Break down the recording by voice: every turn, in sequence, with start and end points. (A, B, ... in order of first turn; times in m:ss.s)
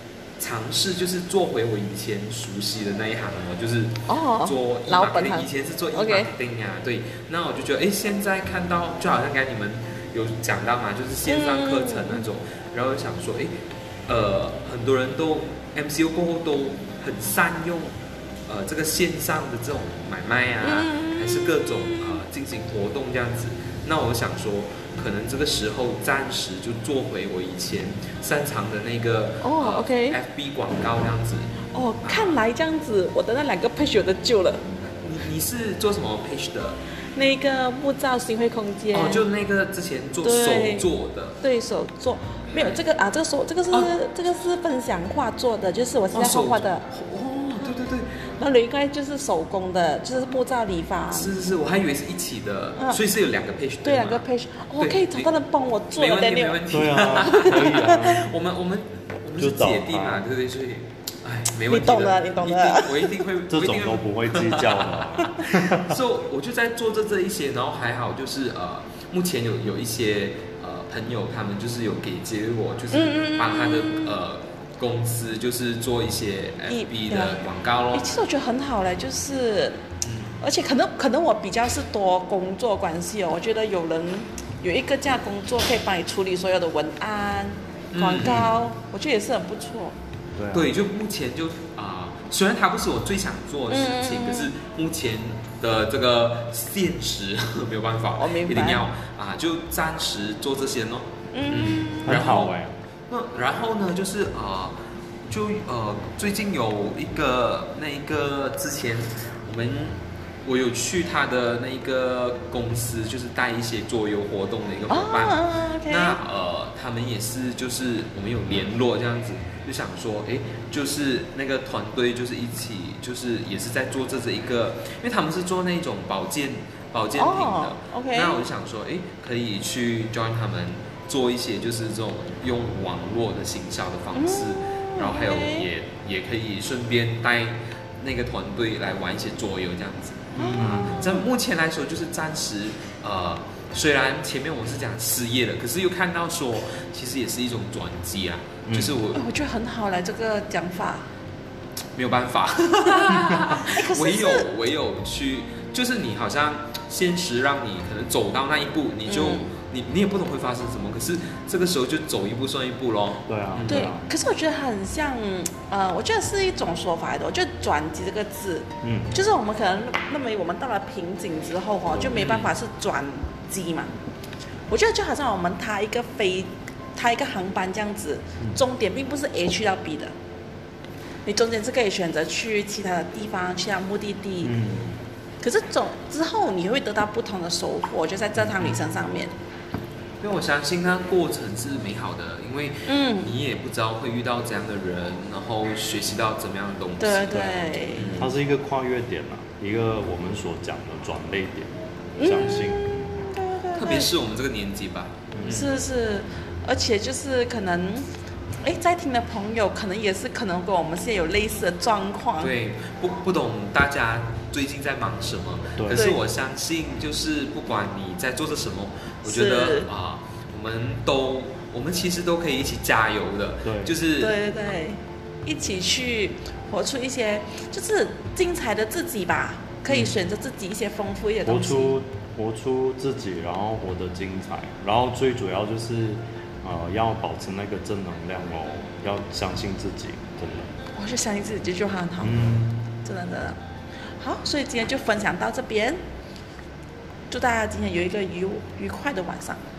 0:00.4-0:13.6 A
0:04.1-0:06.3 B
0:11.3-0:12.2 B
0:14.1-0:17.9 A
0:18.5-0:32.4 A
0:20.6-0:22.2 B
0:29.4-0:30.2 B
0:31.7-0:34.6 B
0:35.0-0:36.8 A
0:37.1-0:39.3 B
0:38.9-0:41.4 A
0:40.2-0:46.9 B
0:42.5-0:42.8 A
0:46.1-0:48.3 A
0:48.4-0:51.3 B
0:51.1-0:54.2 A
0:53.8-0:58.2 B
0:54.8-0:55.3 A
0:55.9-1:18.2 A
0:56.7-0:58.3 C
0:59.4-1:00.3 C
1:01.7-1:03.1 B
1:03.5-1:06.0 C
1:12.9-1:14.2 B
1:16.7-1:17.4 B
1:17.9-1:19.8 B
1:20.0-1:20.4 A
1:20.4-1:30.0 B
1:27.9-1:28.5 A
1:30.4-1:30.7 C
1:30.5-1:42.6 A
1:33.7-1:34.5 B
1:38.2-1:38.9 B
1:41.3-1:42.2 B
1:42.0-1:42.8 C
1:43.1-1:44.8 A
1:45.3-2:29.2 A
1:54.9-1:56.2 B
2:07.2-2:08.4 B
2:14.1-2:15.7 B
2:20.4-2:21.3 B
2:20.4-2:21.0 C
2:28.7-2:29.0 C
2:29.1-2:31.0 B
2:32.0-2:43.9 A
2:33.4-2:34.5 B
2:39.1-2:39.5 B
2:43.3-2:44.1 C
2:43.7-2:53.9 B
2:48.8-2:49.2 C
2:52.1-2:52.5 A
2:54.7-3:00.1 B
3:01.2-3:04.6 B
3:04.4-3:05.0 C
3:05.4-3:09.3 B
3:10.2-3:18.3 A
3:12.9-3:13.3 B
3:17.0-3:18.3 B
3:18.1-3:23.0 C
3:22.2-3:24.2 B
3:22.3-3:22.7 A
3:23.7-3:25.7 A
3:25.3-3:25.7 C
3:25.5-3:28.1 B
3:28.6-3:32.6 B
3:32.4-3:44.4 A
3:35.8-3:36.0 C
3:35.9-3:36.2 B
3:39.2-3:39.9 B
3:43.6-3:44.0 C
3:44.2-3:52.0 B
3:49.9-3:50.1 A
3:51.4-4:00.7 C
4:01.0-4:03.6 B
4:02.2-4:02.9 C
4:04.2-4:06.0 B
4:07.3-4:09.6 B